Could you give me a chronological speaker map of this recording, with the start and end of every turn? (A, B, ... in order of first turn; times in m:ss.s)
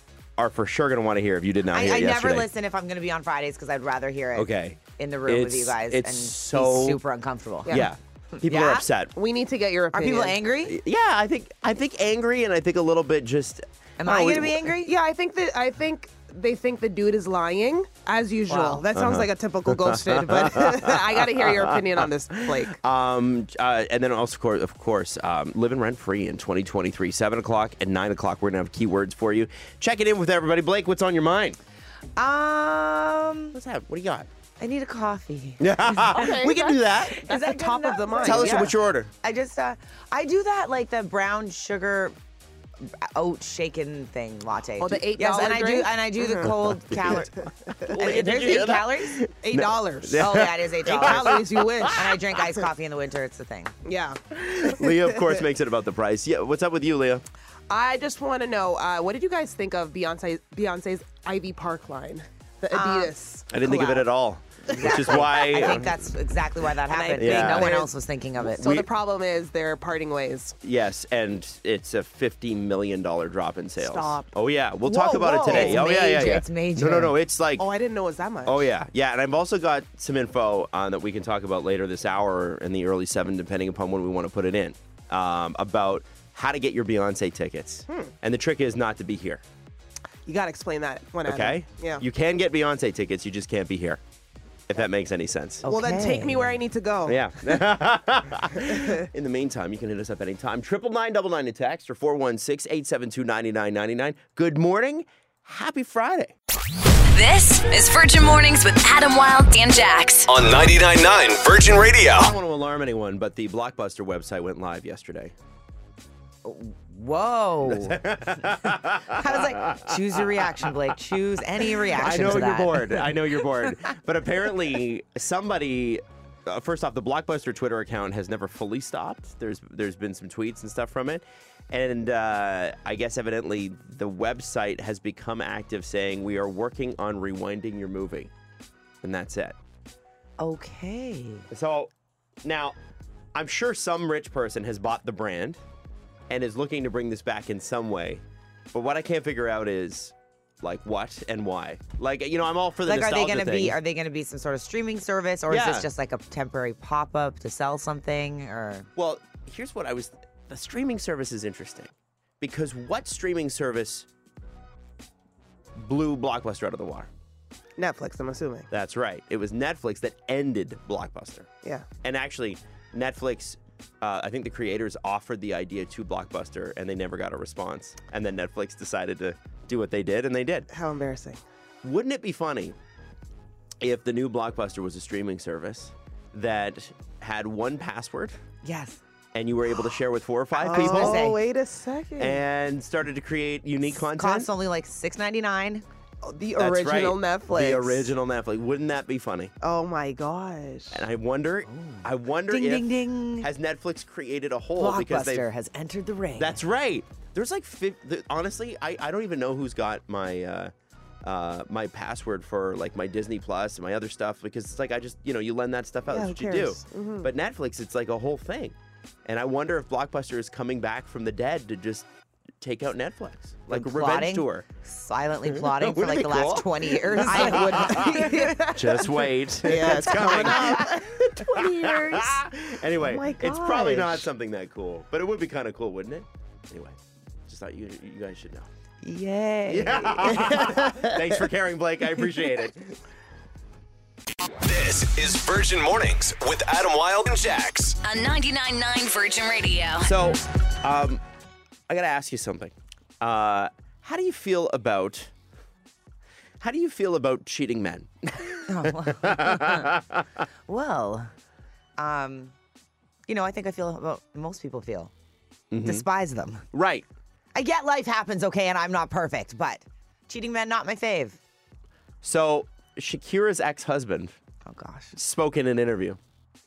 0:00.4-0:02.5 A
0:01.7-0:07.8 B
0:04.3-0:07.0 A
0:07.7-0:09.1 A
0:08.4-0:08.8 B
0:09.1-0:10.4 C
0:09.9-0:10.8 B
0:10.6-0:14.6 A
0:14.0-0:14.9 B
0:14.8-0:22.8 C
0:18.5-0:18.8 B
0:18.9-0:31.6 A
0:32.2-0:33.6 B
0:33.5-0:34.3 A
0:34.6-0:42.1 B
0:35.6-0:37.2 A
0:36.1-0:38.7 C
0:38.2-0:39.1 A
0:42.8-0:47.3 B
0:44.8-0:46.5 C
0:46.4-0:51.9 A
0:47.9-0:49.2 B
0:49.4-0:50.3 C
0:50.1-0:51.4 B
0:50.8-0:52.1 C
0:51.9-0:53.7 B
0:53.8-0:55.4 C
0:54.3-0:57.2 A
0:57.7-1:03.5 C
1:02.7-1:04.1 B
1:03.5-1:05.9 A
1:04.7-1:08.7 B
1:04.8-1:05.8 C
1:06.9-1:07.9 C
1:07.2-1:07.8 A
1:08.5-1:08.9 A
1:08.5-1:10.6 C
1:10.6-1:17.7 A
1:13.8-1:14.3 C
1:14.8-1:17.2 B
1:15.0-1:15.8 C
1:17.6-1:18.6 C
1:18.4-1:29.4 A
1:30.2-1:32.0 C
1:31.2-1:34.0 A
1:34.7-1:35.6 A
1:35.6-1:36.5 B
1:35.6-1:37.2 C
1:37.0-1:46.3 A
1:47.1-1:50.3 D
1:50.2-1:52.3 E
1:52.1-1:55.3 A
1:56.4-2:03.9 B
1:57.6-2:00.9 A
2:01.6-2:18.3 A
2:19.0-2:19.6 A
2:20.4-2:21.5 B
2:21.5-2:21.9 A
2:22.4-2:22.8 A
2:23.3-2:25.6 A
2:26.3-2:33.8 A
2:32.9-2:38.9 B
2:35.5-2:35.9 A
2:39.0-2:44.1 A
2:45.8-2:47.1 A
2:47.8-2:48.7 C
2:48.7-2:51.5 A
2:52.0-3:00.7 A
3:00.7-3:01.4 C
3:01.8-3:02.8 A
3:03.8-3:08.4 A
3:08.6-3:09.0 B
3:09.3-3:11.4 A
3:10.6-3:12.4 C
3:10.7-3:11.4 B
3:12.2-3:14.5 A
3:14.2-3:15.8 B
3:16.2-3:18.1 C
3:16.6-3:19.5 A
3:19.6-3:21.0 C
3:20.9-3:25.5 A
3:21.7-3:23.5 B
3:24.8-3:26.6 B
3:26.4-3:30.7 A
3:31.2-3:38.7 A
3:36.1-3:37.3 C
3:39.2-3:42.0 A
3:42.6-3:44.6 A
3:43.7-3:49.0 B
3:45.5-3:58.7 A
3:47.0-3:48.7 C
3:49.6-3:52.4 C
3:50.1-3:50.8 B
3:53.0-3:54.2 C
3:59.0-4:00.5 B
3:59.6-4:03.0 A
4:00.4-4:01.0 C
4:04.6-4:08.0 E
4:08.0-4:10.1 D
4:10.0-4:11.2 A
4:11.9-4:15.3 A
4:16.6-4:20.4 A
4:18.6-4:19.9 B
4:20.7-4:21.3 B
4:22.0-4:22.5 B
4:23.3-4:25.1 B
4:25.7-4:26.1 A
4:25.8-4:26.6 B
4:26.7-4:27.0 A
4:27.5-4:31.4 B
4:32.2-4:34.4 A
4:34.6-4:35.1 B
4:35.1-4:36.2 A